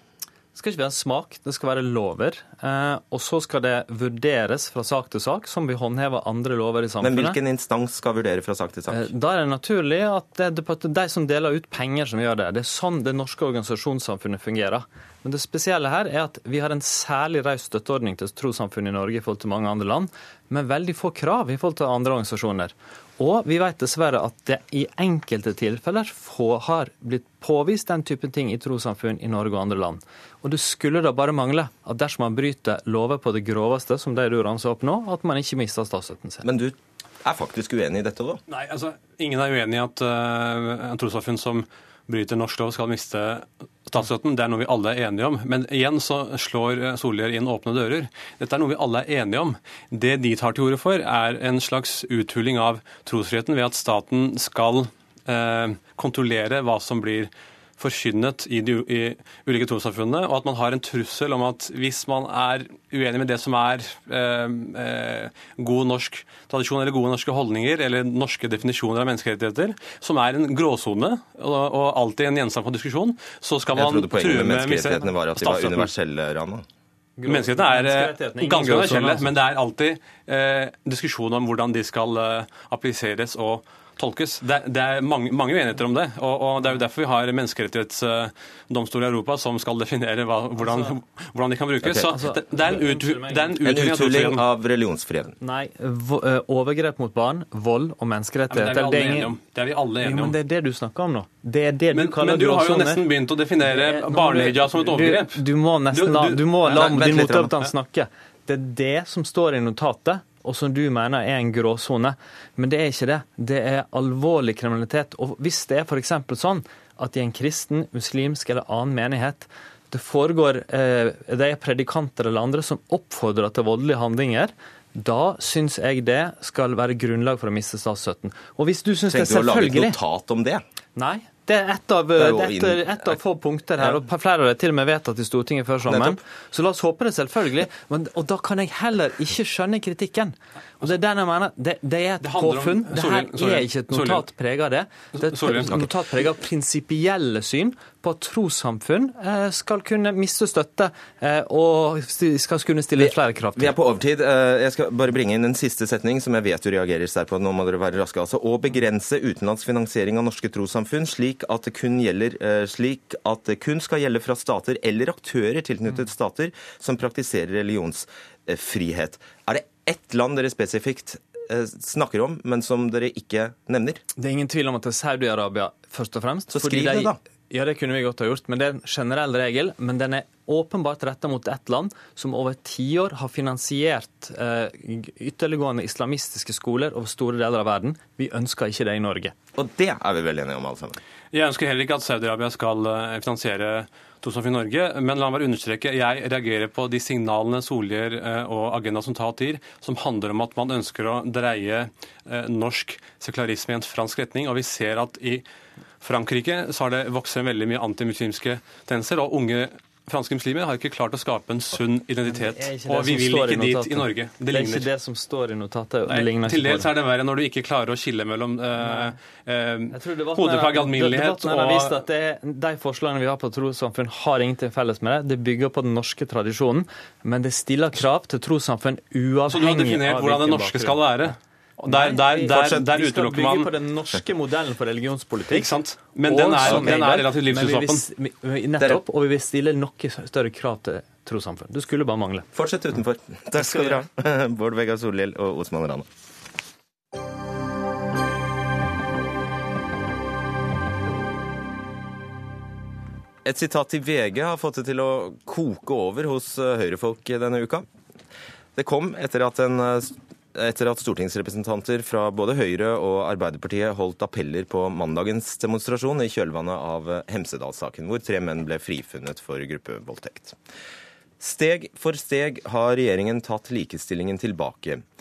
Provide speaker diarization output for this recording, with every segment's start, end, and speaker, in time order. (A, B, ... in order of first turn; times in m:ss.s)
0:00.5-0:07.4 A
0:07.0-0:09.0 B
0:08.9-0:36.4 A
0:36.4-0:38.4 B
0:38.5-1:15.9 C
1:13.7-1:16.6 B
1:17.2-1:19.4 A
1:17.2-1:34.4 C
1:30.6-1:30.9 A
1:31.8-1:32.1 B
1:32.0-1:33.6 A
1:33.6-1:35.4 B
1:35.4-1:39.4 A
1:38.5-1:40.4 C
1:40.0-1:43.1 A
1:41.9-1:47.7 C
1:43.6-2:10.0 A
1:46.8-1:47.5 B
2:09.1-2:10.6 B
2:11.0-2:33.7 A
2:12.2-2:13.2 B
2:15.9-2:16.2 B
2:22.2-2:24.3 C
2:25.1-2:25.7 C
2:33.0-2:54.0 B
2:54.2-3:09.4 A
2:56.5-2:57.2 B
3:09.5-3:11.0 B
3:11.3-3:25.4 C
3:26.0-3:34.9 C
3:32.2-3:36.9 A
3:36.1-3:42.0 C
3:38.8-3:39.2 A
3:39.9-3:51.3 A
3:49.5-3:53.7 C
3:51.8-4:02.4 A
3:55.5-3:58.0 C
3:56.6-3:57.0 B
4:02.5-4:06.0 B
4:03.5-4:04.0 A
4:13.4-4:17.8 B
4:18.8-4:30.6 B
4:31.4-4:35.0 B